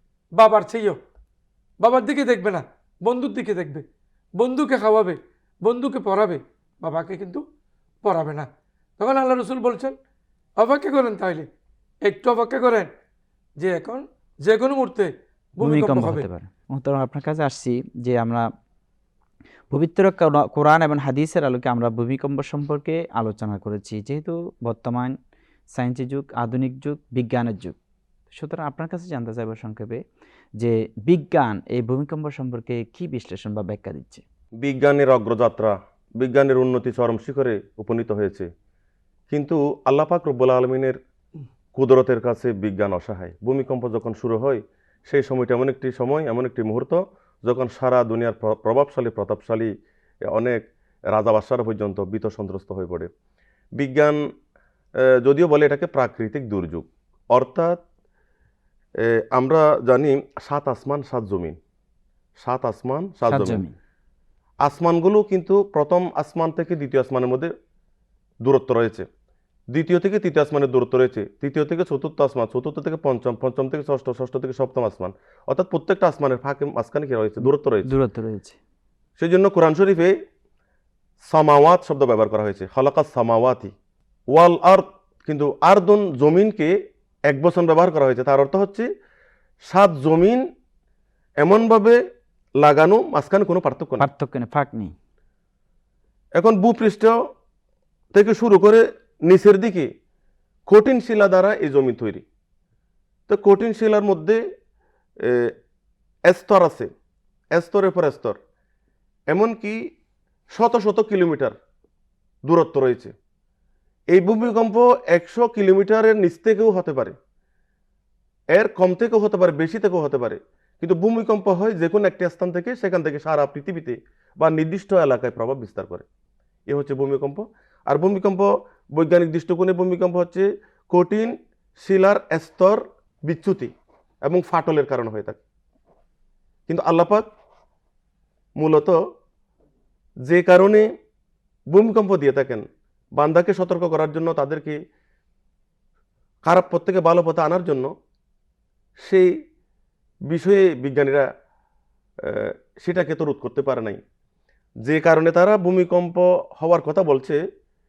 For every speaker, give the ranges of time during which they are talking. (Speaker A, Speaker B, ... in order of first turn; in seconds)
Speaker A: 0.4-1.0, 1.8-3.8, 4.4-7.4, 8.0-8.5, 9.0-9.9, 10.6-11.5, 12.1-12.9, 13.6-16.3
Speaker B: 15.6-18.5, 19.7-25.1, 25.7-27.8, 28.3-30.0, 30.6-34.2, 63.3-63.7, 77.4-78.6, 94.0-94.9
Speaker C: 34.6-38.5, 39.3-41.0, 41.8-49.7, 50.3-50.6, 51.1-53.1, 53.8-54.2, 55.1-57.8, 59.0-61.6, 62.4-63.6, 64.6-67.5, 68.5-69.1, 69.7-77.9, 79.2-80.2, 81.2-83.7, 84.3-86.8, 87.3-88.9, 89.7-90.4, 91.4-92.0, 92.6-94.1, 96.4-97.2, 98.1-99.9, 100.7-102.2, 103.3-104.4, 105.2-105.5, 106.3-106.9, 107.5-108.4, 109.3-109.8, 110.5-111.6, 112.5-113.1, 114.1-117.2, 118.5-126.0, 126.7-133.7, 134.2-135.4, 136.7-137.3, 138.6-139.0, 140.2-140.9, 141.7-142.7, 143.2-144.8, 146.4-147.9, 149.0-149.3, 150.3-151.3, 152.2-154.0, 154.8-157.4